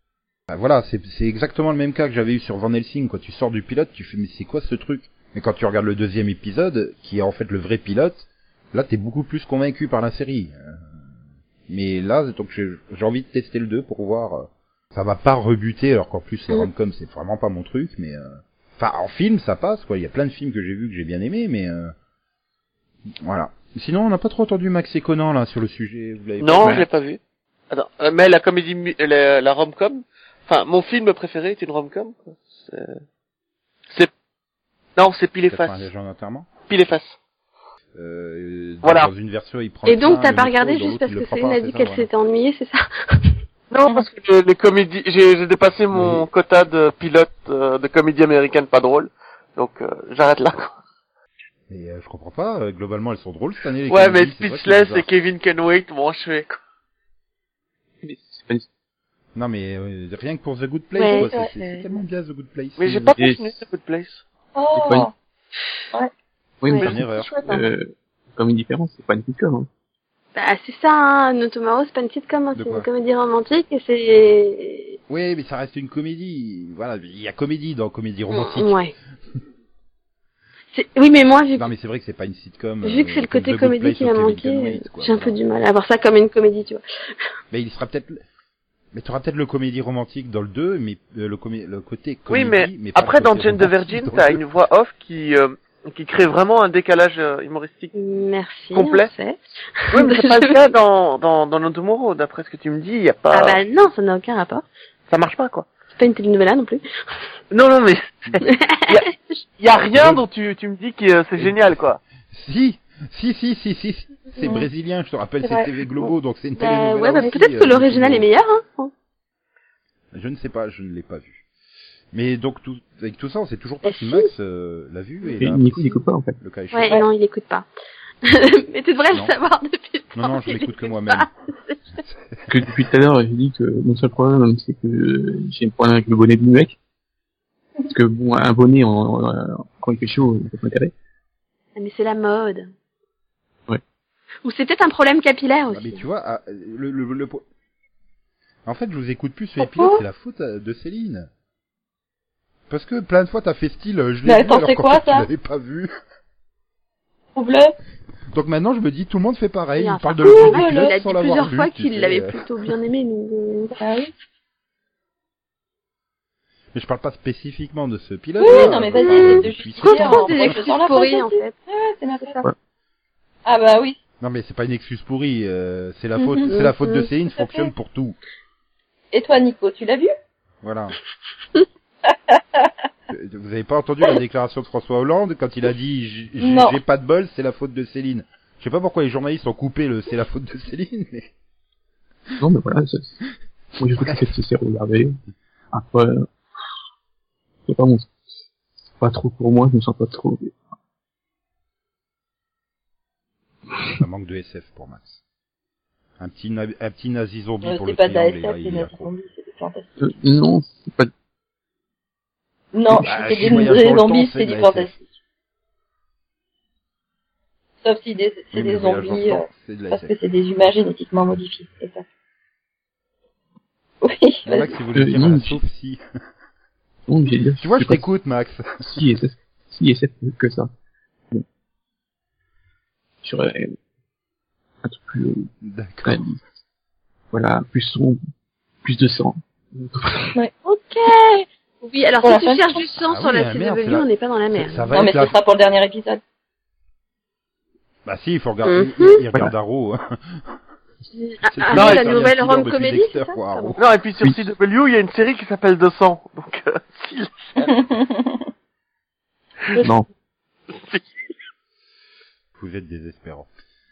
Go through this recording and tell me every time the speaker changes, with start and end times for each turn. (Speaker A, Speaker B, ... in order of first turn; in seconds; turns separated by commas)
Speaker A: 0.5-10.8, Speaker A: 11.7-21.9, Speaker A: 23.2-26.7, Speaker B: 26.4-27.2, Speaker C: 26.6-26.9, Speaker B: 27.7-33.0, Speaker B: 35.0-35.9, Speaker A: 35.5-36.5, Speaker B: 36.6-37.2, Speaker A: 38.0-42.1, Speaker B: 38.8-39.1, Speaker D: 39.9-43.4, Speaker B: 43.7-50.8, Speaker A: 45.9-46.3, Speaker A: 51.7-55.0, Speaker B: 53.9-56.6, Speaker C: 58.0-58.7, Speaker A: 59.4-63.1, Speaker D: 61.0-61.9, Speaker E: 61.2-61.5, Speaker B: 62.8-64.2, Speaker C: 63.1-63.5, Speaker E: 64.5-65.1, Speaker C: 64.8-65.1, Speaker C: 66.6-69.7, Speaker D: 66.7-67.6, Speaker A: 66.7-67.3, Speaker D: 70.3-75.0, Speaker A: 72.5-72.9, Speaker A: 75.1-78.8, Speaker D: 78.3-78.9, Speaker D: 80.7-81.7, Speaker A: 81.6-85.4, Speaker D: 82.8-86.8, Speaker A: 87.5-88.2, Speaker A: 88.9-94.4, Speaker B: 92.3-97.9, Speaker D: 98.0-100.5, Speaker B: 98.7-99.1, Speaker B: 99.9-103.6, Speaker D: 103.3-104.7, Speaker B: 105.1-105.7, Speaker D: 105.9-106.8, Speaker B: 107.5-108.3, Speaker D: 108.4-109.4, Speaker B: 108.9-112.0, Speaker A: 109.7-110.2, Speaker A: 112.3-118.3, Speaker D: 115.5-118.9, Speaker A: 120.1-121.4, Speaker A: 122.1-127.0, Speaker D: 123.8-124.3, Speaker C: 125.4-126.4, Speaker D: 126.7-127.7, Speaker D: 128.2-131.9, Speaker A: 130.2-131.3, Speaker C: 132.5-136.8, Speaker C: 137.9-140.9, Speaker D: 141.8-142.7, Speaker D: 144.4-146.0, Speaker A: 145.7-147.4, Speaker A: 148.7-151.3, Speaker D: 149.6-150.0, Speaker A: 152.7-155.9, Speaker E: 154.3-155.3, Speaker E: 157.3-157.7, Speaker A: 158.3-162.4, Speaker D: 159.8-163.8, Speaker E: 160.2-160.9, Speaker E: 163.8-164.1, Speaker A: 166.7-170.6, Speaker E: 168.4-172.4, Speaker D: 168.4-171.5, Speaker E: 173.4-174.0, Speaker A: 174.2-178.2, Speaker E: 176.2-176.5, Speaker D: 176.5-177.1, Speaker E: 179.1-180.1, Speaker A: 180.6-181.0, Speaker E: 182.1-182.7, Speaker A: 183.1-191.3, Speaker E: 186.4-186.8, Speaker C: 192.4-193.2, Speaker C: 193.8-195.2, Speaker A: 194.0-194.3, Speaker C: 195.7-196.3, Speaker C: 197.7-198.1, Speaker C: 199.0-200.6, Speaker A: 203.9-205.2, Speaker A: 206.2-209.1, Speaker E: 207.6-210.2, Speaker C: 210.0-211.1, Speaker E: 212.7-215.0, Speaker A: 212.9-215.1, Speaker E: 217.8-222.1, Speaker A: 218.5-220.1, Speaker E: 224.0-224.7, Speaker A: 224.4-226.0, Speaker C: 224.9-225.6, Speaker C: 227.1-228.0, Speaker A: 227.6-228.7, Speaker C: 228.8-230.7, Speaker C: 233.2-233.8, Speaker C: 234.8-235.5, Speaker A: 235.6-236.2, Speaker C: 236.0-236.4, Speaker C: 237.3-238.2, Speaker C: 238.8-240.3, Speaker D: 240.7-245.0, Speaker E: 242.2-242.7, Speaker A: 243.1-245.3, Speaker E: 244.9-246.2, Speaker A: 248.1-250.6, Speaker D: 248.7-249.2, Speaker D: 251.1-253.8, Speaker A: 251.5-253.8, Speaker B: 251.7-252.2, Speaker B: 253.8-257.7, Speaker E: 257.7-258.4, Speaker C: 259.8-260.1, Speaker B: 260.7-261.2, Speaker A: 262.6-263.5